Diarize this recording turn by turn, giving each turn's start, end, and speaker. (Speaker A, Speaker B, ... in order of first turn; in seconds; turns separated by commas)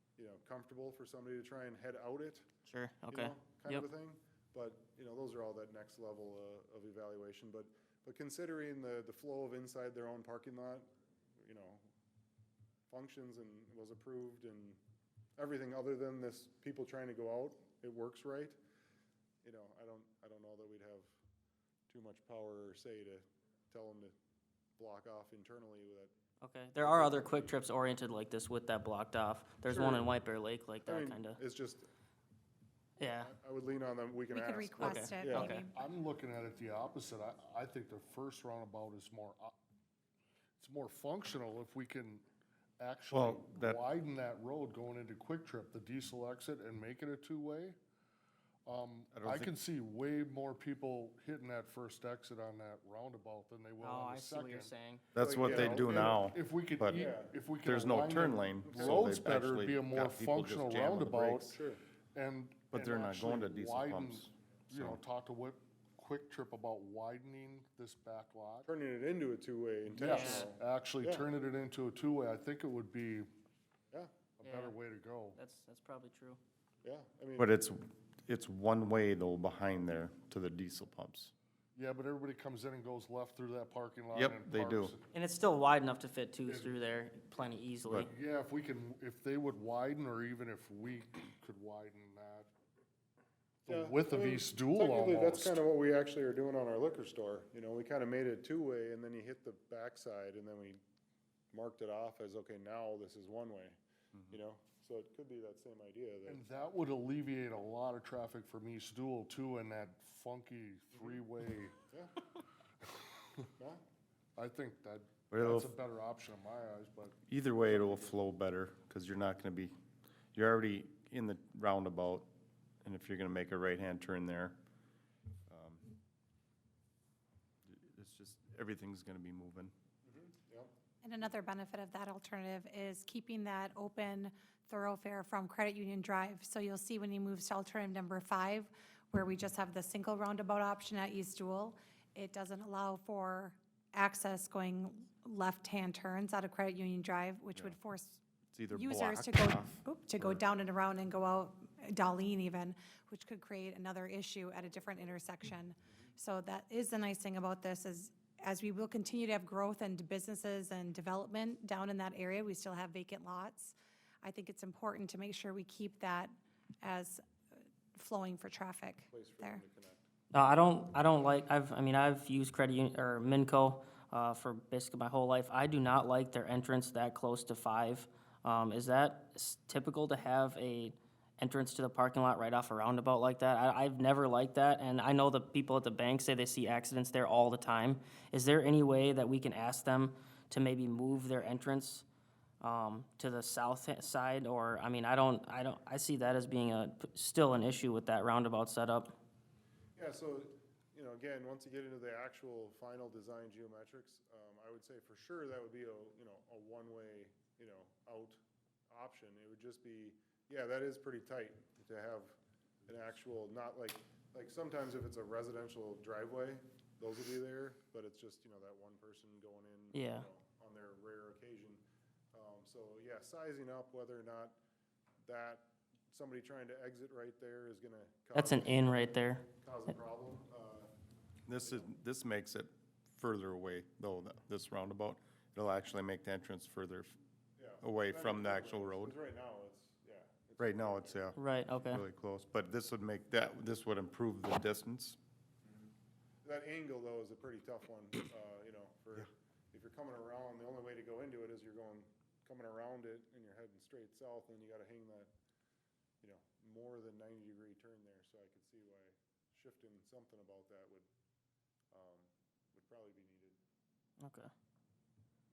Speaker A: 0.2-2.5, Speaker B: 2.7-3.9, Speaker A: 3.1-10.9, Speaker A: 11.4-11.8, Speaker A: 12.9-14.8, Speaker A: 15.4-18.6, Speaker A: 19.4-21.1, Speaker A: 21.9-24.1, Speaker A: 24.8-26.1, Speaker B: 26.4-31.4, Speaker A: 26.8-27.5, Speaker A: 29.7-30.1, Speaker A: 30.9-31.9, Speaker B: 33.0-33.3, Speaker A: 33.2-35.6, Speaker C: 34.3-35.7, Speaker B: 34.8-35.6, Speaker D: 35.7-39.5, Speaker D: 40.6-42.2, Speaker D: 42.8-47.8, Speaker E: 43.1-43.8, Speaker D: 48.7-54.7, Speaker E: 49.1-49.5, Speaker B: 53.8-55.0, Speaker E: 55.1-57.1, Speaker A: 55.2-56.2, Speaker D: 55.4-61.5, Speaker A: 56.9-57.3, Speaker E: 57.6-61.5, Speaker A: 58.6-59.1, Speaker A: 61.5-61.8, Speaker D: 62.1-68.7, Speaker E: 62.7-65.0, Speaker A: 68.7-71.2, Speaker D: 70.0-73.3, Speaker B: 70.0-70.5, Speaker D: 74.4-75.4, Speaker B: 74.4-74.8, Speaker B: 75.3-76.4, Speaker A: 76.8-77.5, Speaker E: 77.4-81.3, Speaker D: 81.8-85.1, Speaker E: 84.1-84.9, Speaker B: 85.1-88.1, Speaker D: 86.5-86.7, Speaker D: 88.0-92.5, Speaker D: 93.7-95.6, Speaker A: 93.7-100.8, Speaker A: 101.5-103.8, Speaker A: 104.3-106.4, Speaker D: 106.3-111.8, Speaker A: 110.9-111.2, Speaker A: 111.9-112.2, Speaker D: 112.8-113.5, Speaker D: 114.4-118.1, Speaker E: 115.3-115.8, Speaker E: 117.3-119.7, Speaker E: 120.3-122.3, Speaker E: 122.8-124.6, Speaker E: 125.5-125.8, Speaker E: 127.7-129.7, Speaker A: 130.1-130.7, Speaker C: 131.0-148.2, Speaker E: 148.5-150.4, Speaker C: 148.7-167.2, Speaker C: 168.0-169.6, Speaker A: 169.1-170.0, Speaker B: 170.3-192.1, Speaker B: 192.6-199.1, Speaker A: 200.0-221.8, Speaker B: 219.9-220.3, Speaker A: 222.3-224.6, Speaker A: 225.2-230.9, Speaker B: 228.3-229.4, Speaker E: 231.5-237.2, Speaker A: 231.6-231.9, Speaker A: 237.6-241.3, Speaker E: 237.8-239.2, Speaker E: 240.6-245.2, Speaker B: 241.4-242.0, Speaker A: 246.4-255.3, Speaker A: 256.2-261.1, Speaker A: 261.9-263.6, Speaker B: 264.2-264.5